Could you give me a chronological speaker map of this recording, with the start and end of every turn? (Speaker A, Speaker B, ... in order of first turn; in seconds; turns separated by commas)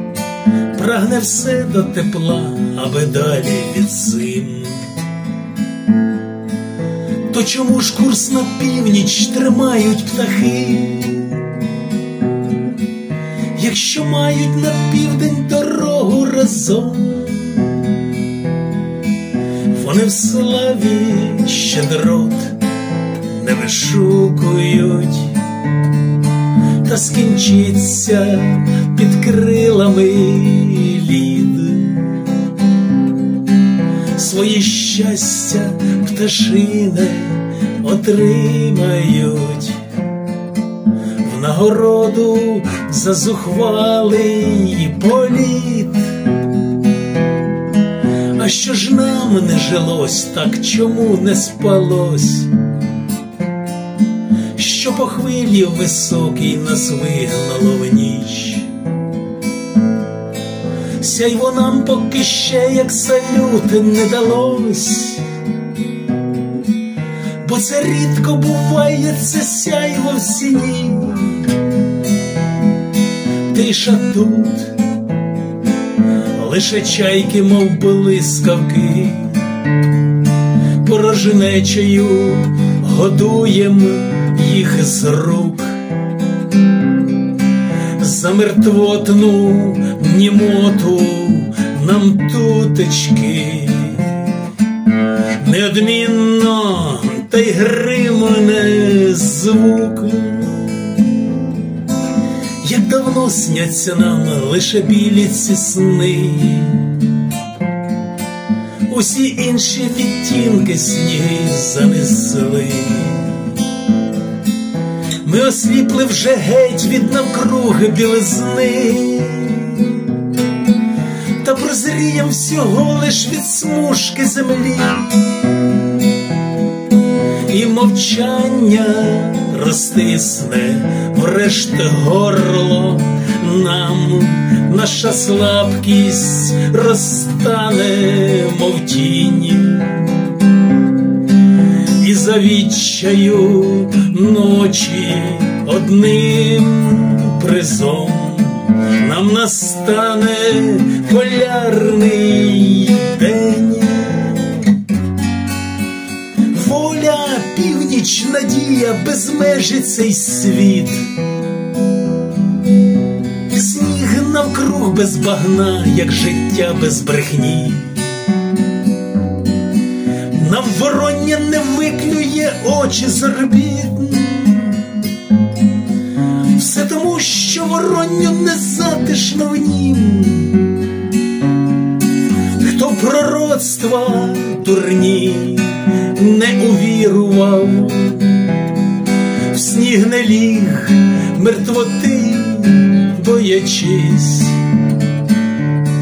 Speaker A: 0.7-5.0, Speaker A: 7.3-11.4, Speaker A: 13.5-18.0, Speaker A: 19.7-22.6, Speaker A: 23.2-25.4, Speaker A: 26.8-32.2, Speaker A: 34.1-39.9, Speaker A: 41.2-46.2, Speaker A: 48.3-52.6, Speaker A: 54.6-58.7, Speaker A: 61.0-65.3, Speaker A: 67.4-71.6, Speaker A: 73.5-74.8, Speaker A: 76.3-79.5, Speaker A: 80.8-85.8, Speaker A: 88.0-94.3, Speaker A: 95.4-101.2, Speaker A: 102.6-107.1, Speaker A: 108.9-113.5, Speaker A: 115.2-120.2, Speaker A: 121.4-125.1, Speaker A: 127.5-140.3, Speaker A: 141.9-154.7, Speaker A: 156.5-161.1, Speaker A: 163.5-168.2, Speaker A: 170.3-175.0, Speaker A: 176.5-180.7, Speaker A: 182.5-188.5, Speaker A: 189.4-194.7